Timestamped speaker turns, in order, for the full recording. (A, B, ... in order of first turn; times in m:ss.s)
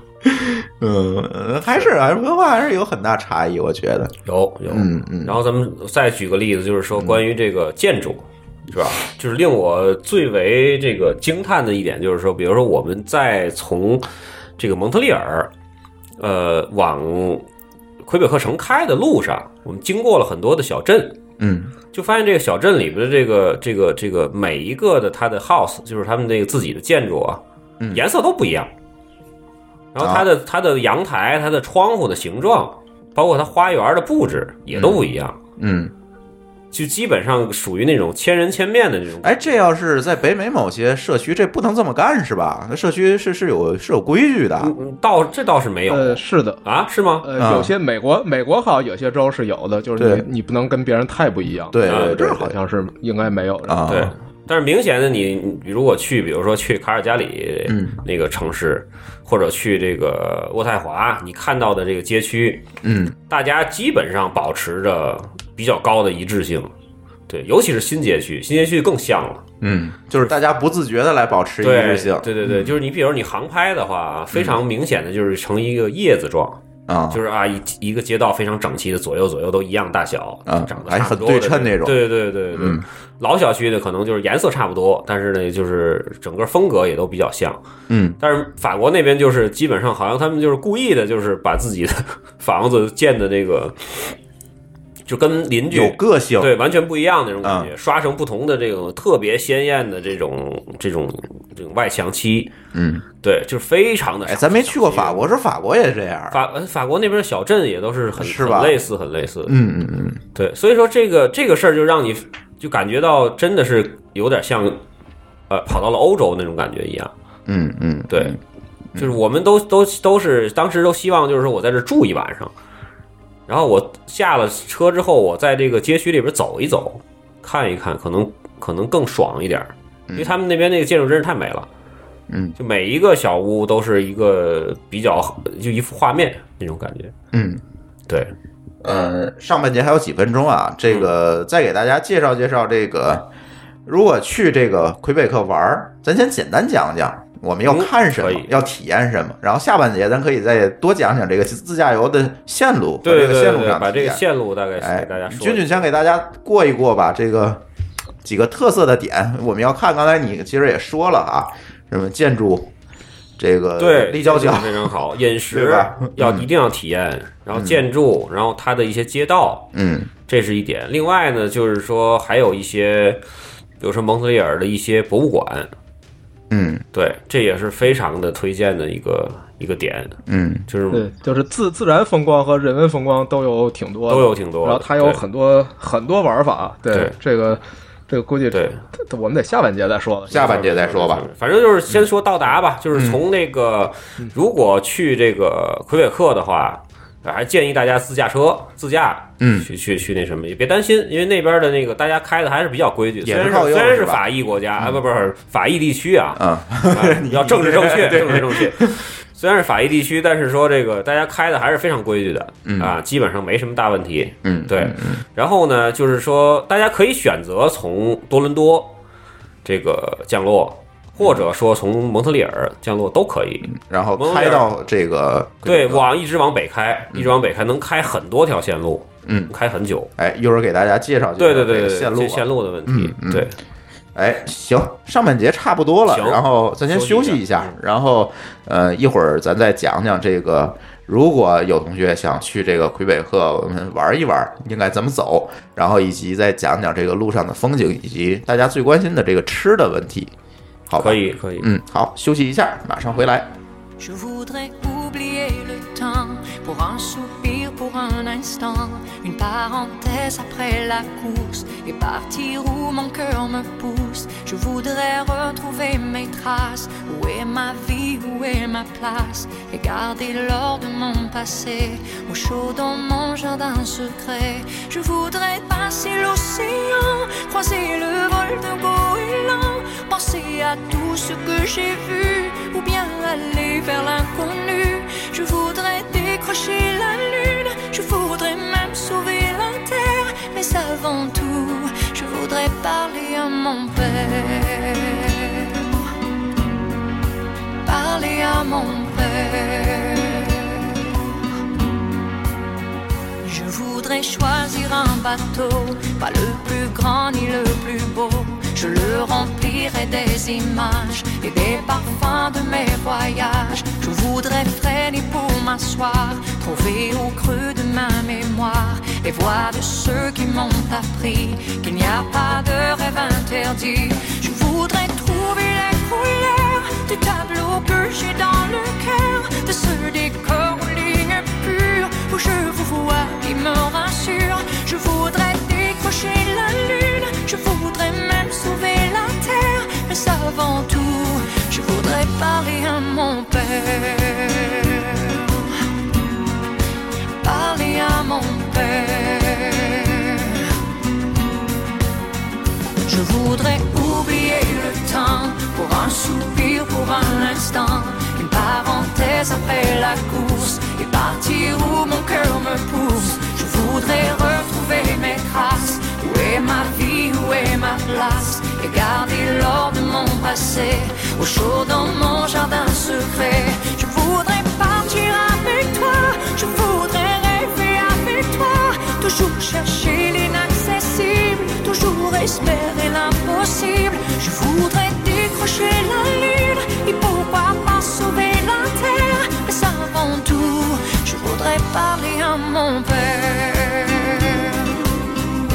0:00.2-0:04.1 A
0:04.3-0:15.5 B
0:04.7-0:05.4 A
0:07.0-0:07.2 A
0:16.2-0:17.5 B
0:18.0-0:21.2 B
0:21.4-0:21.7 A
0:21.9-0:28.7 B
0:29.9-0:35.4 B
0:30.0-0:30.3 A
0:34.7-0:35.0 A
0:35.6-0:35.9 A
0:36.7-0:39.5 B
0:39.2-0:44.7 A
0:44.6-0:47.3 B
0:45.9-0:46.6 C
0:47.2-0:53.8 C
0:47.4-0:47.7 A
0:50.0-0:50.3 A
0:51.7-0:52.5 A
0:51.9-0:52.4 B
0:53.7-0:54.1 A
0:53.9-1:02.7 B
0:57.7-0:58.0 A
1:02.8-1:03.2 A
1:03.3-1:06.7 B
1:07.3-1:09.4 B
1:09.6-1:12.8 A
1:11.6-1:16.6 B
1:14.3-1:14.6 A
1:16.9-1:17.2 A
1:17.1-1:27.6 B
1:20.5-1:22.0 A
1:22.5-1:22.8 A
1:27.9-1:28.2 A
1:28.2-1:34.2 B
1:35.1-1:42.5 B
1:35.7-1:36.5 A
1:37.4-1:37.7 A
1:42.7-1:43.0 A
1:43.2-1:45.3 B
1:44.2-1:46.4 A
1:46.3-1:49.6 B
1:48.2-1:48.8 A
1:49.5-1:50.2 A
1:50.4-1:54.8 B
1:55.5-1:57.1 B
1:57.5-1:58.4 A
1:58.1-1:58.4 B
1:59.0-2:02.5 B
2:03.5-2:11.7 B
2:10.1-2:10.4 A
2:12.3-2:12.6 A
2:12.6-2:17.1 B
2:17.3-2:17.6 A
2:18.8-2:23.3 A
2:20.9-2:21.1 B
2:23.9-2:34.2 A
2:27.7-2:28.5 B
2:33.0-2:35.9 B
2:34.8-2:37.6 A
2:38.2-2:42.7 A
2:43.4-2:44.9 A
2:43.8-2:49.7 B
2:45.5-2:46.5 A
2:47.5-2:47.8 A
2:49.7-2:50.1 A
2:50.3-2:53.2 B
2:53.8-2:55.7 B
2:56.5-2:56.8 A
2:56.9-3:00.2 B
3:00.3-3:00.7 A
3:00.7-3:01.0 B
3:00.9-3:10.6 C
3:04.1-3:05.2 B
3:08.5-3:08.8 B
3:10.3-3:11.3 A
3:10.3-3:39.0 B
3:12.9-3:13.2 A
3:19.4-3:19.7 A
3:23.2-3:24.2 A
3:26.4-3:29.0 A
3:32.7-3:33.0 A
3:34.4-3:35.2 A
3:39.6-3:44.7 B
3:43.7-3:46.1 A
3:45.6-3:50.1 B
3:49.3-3:49.5 A
3:50.2-3:53.5 A
3:51.4-3:53.6 B
3:54.1-4:10.3 A
3:56.1-3:57.8 B
4:10.9-4:13.5 A
4:11.0-4:11.7 B
4:14.0-4:55.8 D
4:57.8-5:01.1 D
5:03.4-5:45.6 D
5:47.4-5:50.7 D
5:53.0-6:35.0 D